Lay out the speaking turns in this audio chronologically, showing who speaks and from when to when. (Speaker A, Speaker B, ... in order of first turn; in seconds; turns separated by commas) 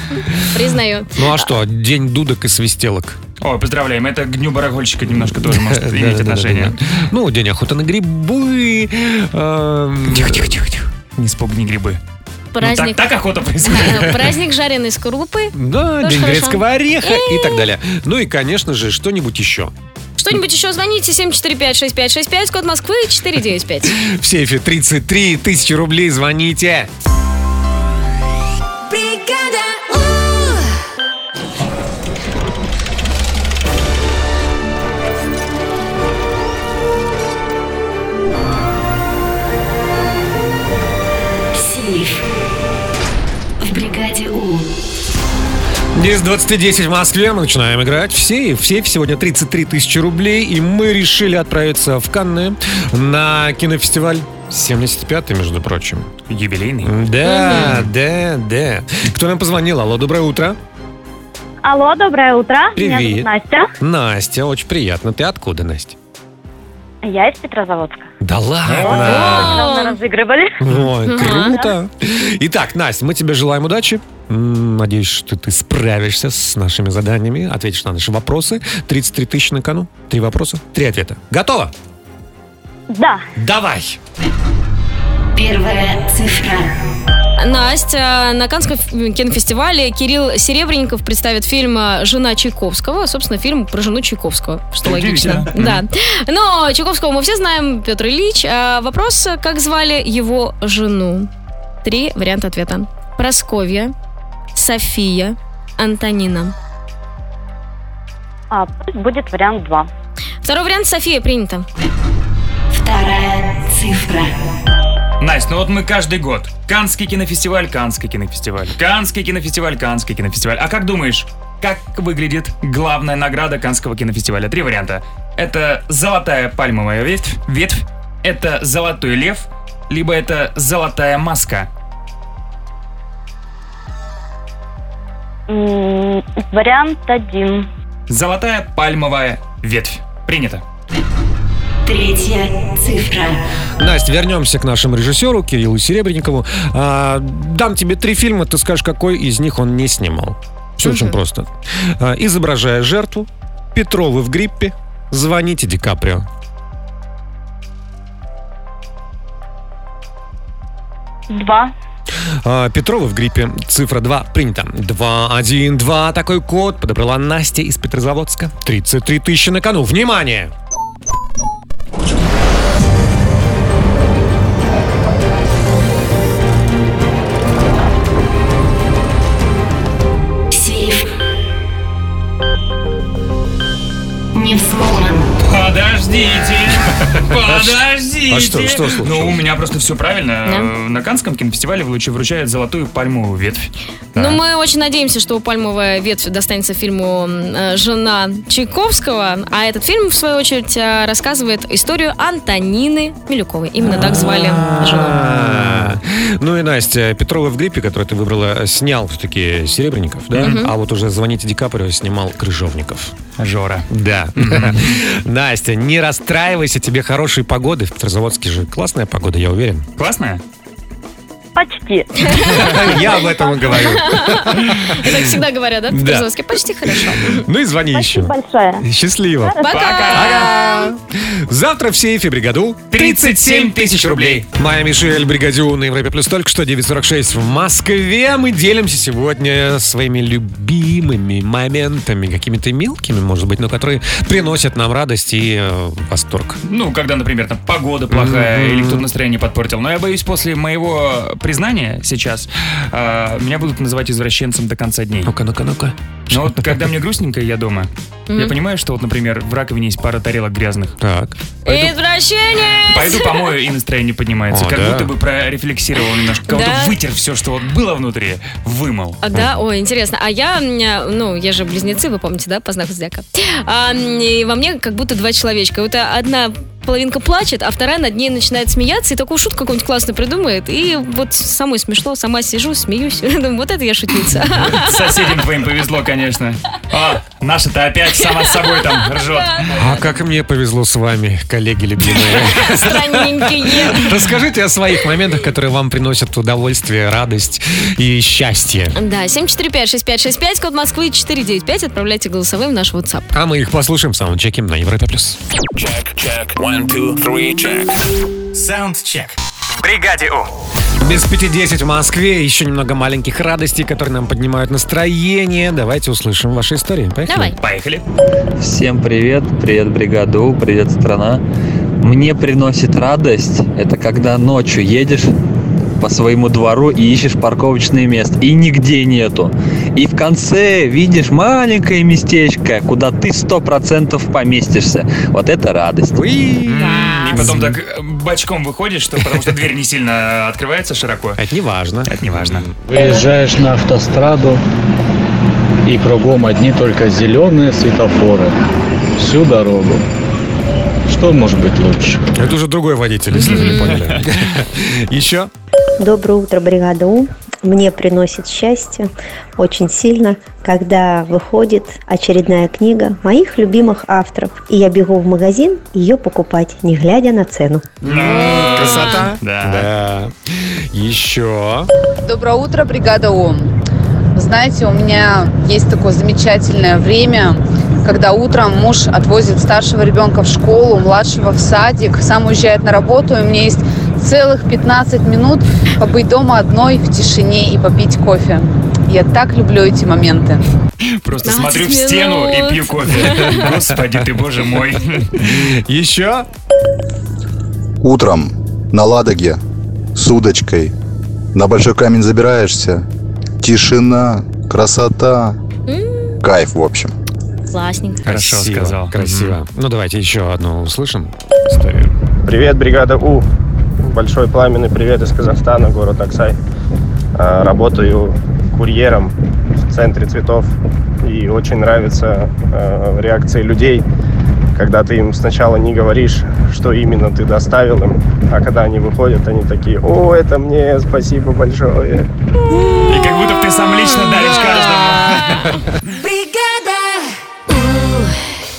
Speaker A: 0.5-1.5, Speaker B: 1.1-3.2, Speaker C: 3.4-7.0, Speaker B: 5.1-10.6, Speaker C: 10.1-12.0, Speaker A: 12.5-13.0, Speaker C: 12.6-14.2, Speaker A: 13.6-17.6, Speaker B: 15.5-19.7, Speaker A: 20.2-23.9, Speaker B: 23.9-26.9, Speaker D: 28.9-30.7, Speaker D: 41.5-42.2, Speaker D: 43.6-44.7, Speaker B: 45.9-56.1, Speaker C: 56.3-56.9, Speaker B: 56.8-60.6, Speaker A: 57.2-57.8, Speaker E: 61.6-63.7, Speaker B: 62.8-65.9, Speaker E: 67.0-68.1, Speaker B: 68.2-69.6, Speaker E: 68.7-70.6, Speaker A: 68.9-70.0, Speaker B: 70.6-81.7, Speaker A: 71.0-71.6, Speaker E: 82.9-83.2, Speaker B: 83.3-84.0, Speaker D: 85.3-86.8, Speaker A: 87.4-101.3, Speaker C: 94.8-95.8, Speaker A: 101.8-103.9, Speaker A: 104.5-106.5, Speaker E: 108.5-109.9, Speaker A: 110.4-111.7, Speaker D: 112.7-114.4, Speaker C: 115.2-131.7, Speaker E: 135.5-137.7, Speaker C: 138.1-140.6, Speaker D: 141.8-143.4, Speaker B: 143.8-156.2, Speaker A: 150.8-151.2, Speaker E: 161.3-161.7, Speaker B: 162.4-170.5, Speaker D: 180.5-181.0, Speaker D: 184.3-185.2, Speaker C: 185.4-194.4, Speaker B: 187.3-189.4, Speaker A: 190.4-190.7, Speaker A: 194.1-205.2, Speaker B: 203.9-213.1, Speaker A: 210.3-210.7, Speaker C: 213.4-215.0, Speaker B: 213.9-219.9, Speaker C: 220.0-220.4, Speaker E: 221.6-222.1, Speaker A: 222.2-227.4, Speaker B: 222.4-224.9, Speaker E: 222.9-223.2, Speaker B: 225.9-226.3, Speaker B: 226.8-246.6, Speaker E: 227.9-228.8, Speaker E: 229.4-229.7, Speaker A: 229.6-230.9, Speaker C: 229.7-230.5, Speaker C: 232.9-234.4, Speaker C: 246.6-255.3, Speaker B: 248.1-249.1, Speaker B: 255.2-256.8, Speaker C: 256.3-260.9, Speaker B: 261.0-261.4, Speaker A: 261.6-263.5, Speaker C: 261.6-261.9, Speaker C: 262.9-269.2, Speaker B: 264.5-265.1, Speaker A: 266.5-266.9, Speaker A: 269.2-285.0, Speaker C: 284.7-289.7, Speaker A: 288.2-290.0, Speaker B: 289.8-298.9, Speaker A: 292.2-294.1, Speaker A: 298.9-303.3, Speaker B: 303.3-305.4, Speaker F: 305.7-307.9, Speaker G: 308.5-309.4, Speaker C: 309.9-310.4, Speaker B: 311.0-317.5, Speaker A: 317.3-317.6, Speaker C: 317.6-318.0, Speaker H: 318.6-321.4, Speaker H: 322.0-325.3, Speaker H: 326.0-336.2, Speaker B: 336.1-337.8, Speaker C: 336.7-341.4, Speaker A: 336.8-337.4, Speaker B: 341.4-342.5, Speaker C: 342.1-342.7, Speaker G: 342.9-344.6, Speaker G: 345.9-348.5, Speaker G: 349.2-350.0, Speaker G: 351.1-352.2, Speaker B: 352.3-355.5, Speaker A: 353.3-354.0, Speaker C: 353.5-354.2, Speaker I: 356.0-367.9, Speaker C: 368.0-369.9, Speaker B: 368.0-371.9, Speaker A: 368.5-369.4, Speaker J: 372.2-373.7, Speaker J: 374.3-390.6, Speaker C: 391.2-395.6, Speaker A: 391.4-393.7, Speaker B: 393.2-394.0, Speaker B: 395.4-396.5, Speaker K: 398.0-399.6, Speaker K: 400.1-400.9, Speaker K: 401.5-403.1, Speaker K: 403.6-405.6, Speaker A: 405.9-406.3, Speaker K: 406.4-407.1, Speaker A: 407.7-408.2, Speaker C: 408.2-409.6, Speaker B: 408.2-412.1, Speaker L: 412.4-413.5, Speaker L: 414.0-416.6, Speaker L: 417.4-419.3, Speaker L: 419.9-424.0, Speaker L: 424.7-432.3, Speaker C: 433.0-435.8, Speaker A: 435.2-435.6, Speaker D: 436.0-438.4